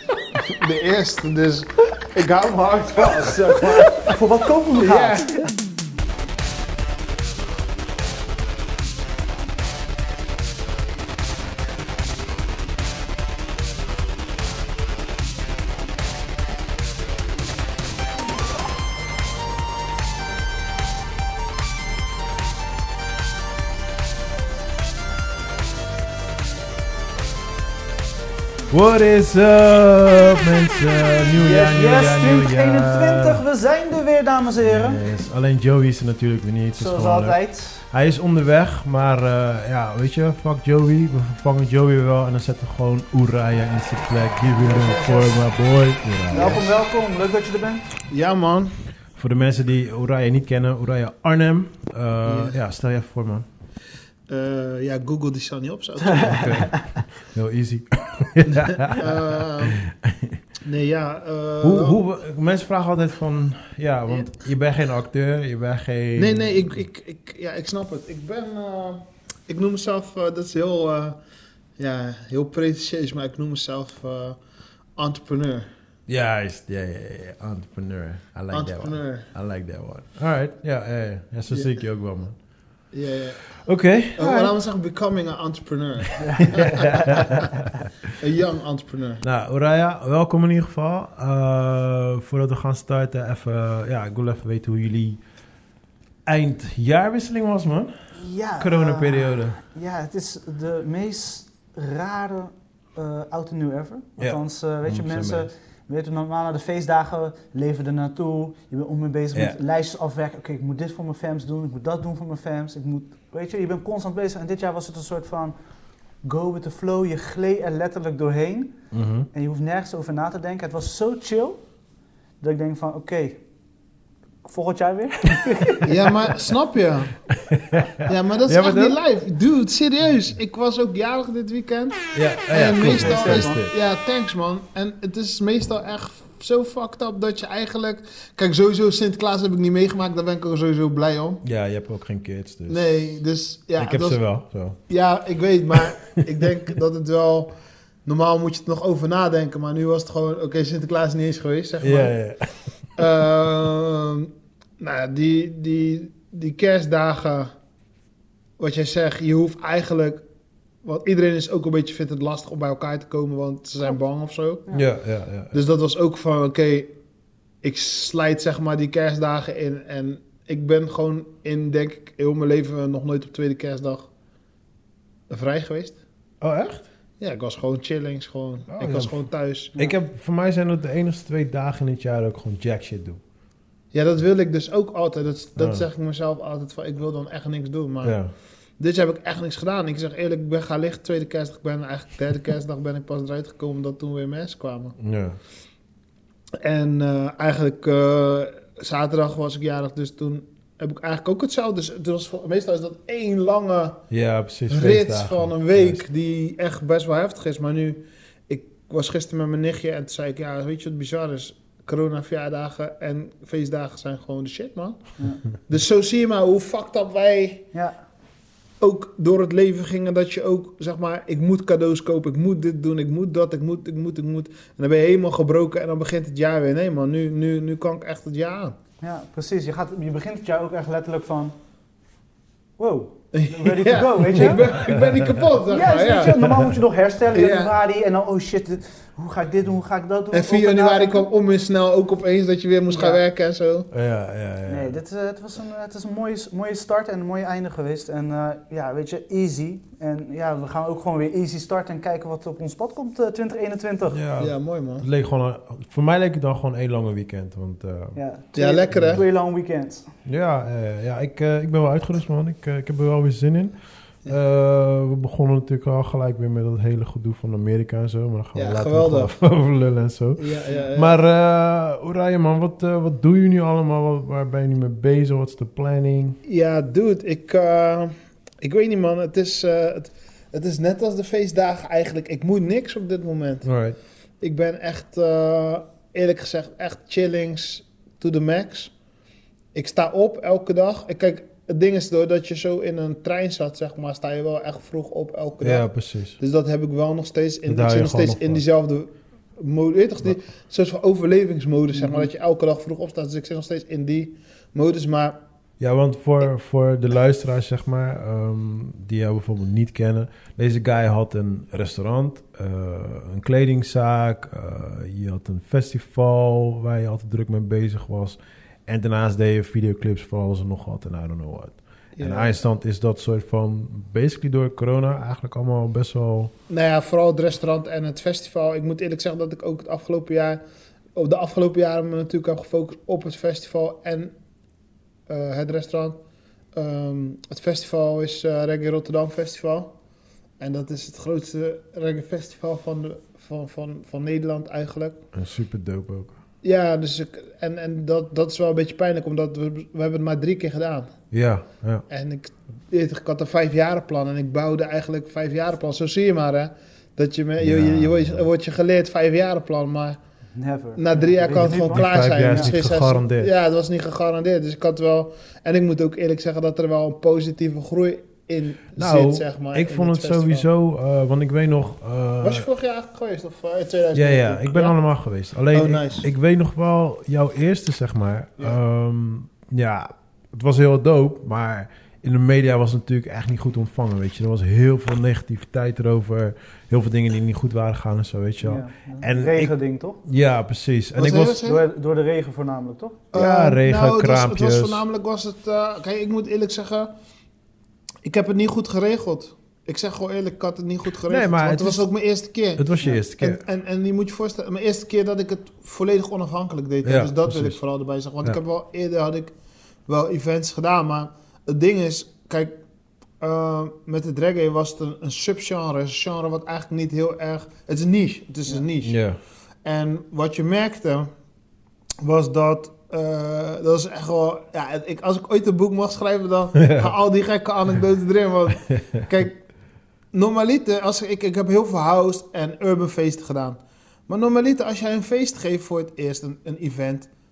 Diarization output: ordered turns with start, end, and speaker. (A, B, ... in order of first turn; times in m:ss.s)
0:00.3-0:04.2 A
0:03.0-0:05.5 B
0:04.8-0:05.4 A
0:28.7-0:33.4 C
0:31.4-0:35.0 B
0:34.6-0:37.4 C
0:36.8-0:37.8 B
0:37.9-0:46.7 C
0:44.7-0:45.3 B
0:46.3-0:47.9 B
0:48.1-0:48.7 A
0:49.2-0:53.4 C
0:52.2-0:52.6 A
0:54.3-0:56.7 A
0:56.2-1:00.4 C
0:58.8-0:59.8 A
1:00.6-1:02.0 A
1:01.6-1:06.8 C
1:06.2-1:11.2 A
1:11.8-1:14.4 A
1:15.0-1:15.7 A
1:16.1-1:22.4 C
1:18.5-1:19.3 A
1:22.9-1:23.4 A
1:23.6-1:24.5 C
1:24.1-1:27.5 A
1:26.4-1:27.9 C
1:28.2-1:29.2 A
1:29.2-1:35.2 C
1:36.2-1:37.9 C
1:38.2-1:55.5 B
1:38.6-1:39.6 C
1:44.2-1:45.5 C
1:56.2-1:58.8 B
1:58.9-1:59.3 C
1:59.3-2:01.6 B
2:02.4-2:03.4 B
2:04.4-2:06.1 B
2:05.8-2:07.2 A
2:07.3-2:09.0 C
2:08.0-2:21.4 A
2:12.1-2:13.7 C
2:12.8-2:13.6 B
2:21.4-2:23.2 C
2:22.7-2:24.2 A
2:23.8-2:24.8 C
2:24.9-2:27.5 A
2:28.0-2:32.2 A
2:31.8-2:32.7 C
2:32.9-2:37.5 A
2:38.6-2:40.2 A
2:40.8-2:44.7 A
2:44.7-2:45.5 C
2:45.5-2:46.9 A
2:47.6-2:54.1 A
2:55.3-2:56.0 A
2:56.4-2:56.8 C
2:57.2-2:59.7 A
2:58.7-3:03.2 C
3:03.9-3:08.2 A
3:05.6-3:05.8 C
3:08.0-3:08.3 C
3:08.8-3:15.0 A
3:15.0-3:15.4 C
3:16.6-3:24.0 A
3:24.1-3:26.0 C
3:24.7-3:37.6 A
3:38.8-3:48.8 A
3:49.0-3:51.5 B
3:52.8-3:54.7 B
3:53.3-3:56.5 A
3:54.4-3:55.4 C
3:55.7-4:01.3 B
3:56.4-3:56.7 C
3:57.3-3:57.7 A
4:00.3-4:03.9 A
4:02.9-4:03.2 B
4:03.9-4:05.0 C
4:04.7-4:14.2 B
4:14.1-4:18.2 C
4:14.4-4:15.1 A
4:18.2-4:20.0 B
4:18.5-4:19.2 A
4:18.9-4:19.2 C
4:20.2-4:23.7 C
4:24.2-4:36.4 C
4:28.5-4:29.3 A
4:30.4-4:31.2 A
4:36.4-4:43.7 A
4:43.6-4:44.0 C
4:44.4-4:48.9 A
4:49.7-5:05.4 A
4:55.6-4:56.4 C
4:57.7-4:58.6 C
5:02.0-5:02.3 B
5:05.8-5:26.5 C
5:22.2-5:22.6 A
5:26.7-5:30.6 A
5:31.2-5:34.3 A
5:35.3-5:36.2 A
5:36.7-5:39.9 A
5:40.6-5:45.2 A
5:45.3-5:46.3 C
5:46.6-5:51.1 A
5:51.3-5:52.0 C
5:52.1-6:00.2 A
5:57.6-5:58.4 C
6:00.5-6:02.7 B
6:01.0-6:10.7 A
6:01.5-6:03.5 C
6:09.0-6:12.7 C
6:12.4-6:15.0 A
6:14.1-6:31.6 C
6:15.7-6:16.3 A
6:28.6-6:30.2 B
6:31.2-6:31.8 A
6:31.4-6:33.2 B
6:33.3-6:37.1 A
6:33.3-6:35.0 C
6:38.2-6:49.5 A
6:41.3-6:42.1 C
6:42.8-6:43.6 C
6:47.0-6:47.8 C
6:50.1-6:52.7 A
6:53.4-6:59.2 A
6:59.0-6:59.4 C
6:59.8-7:01.3 A
7:02.2-7:09.6 A
7:06.8-7:07.1 C
7:10.3-7:17.3 A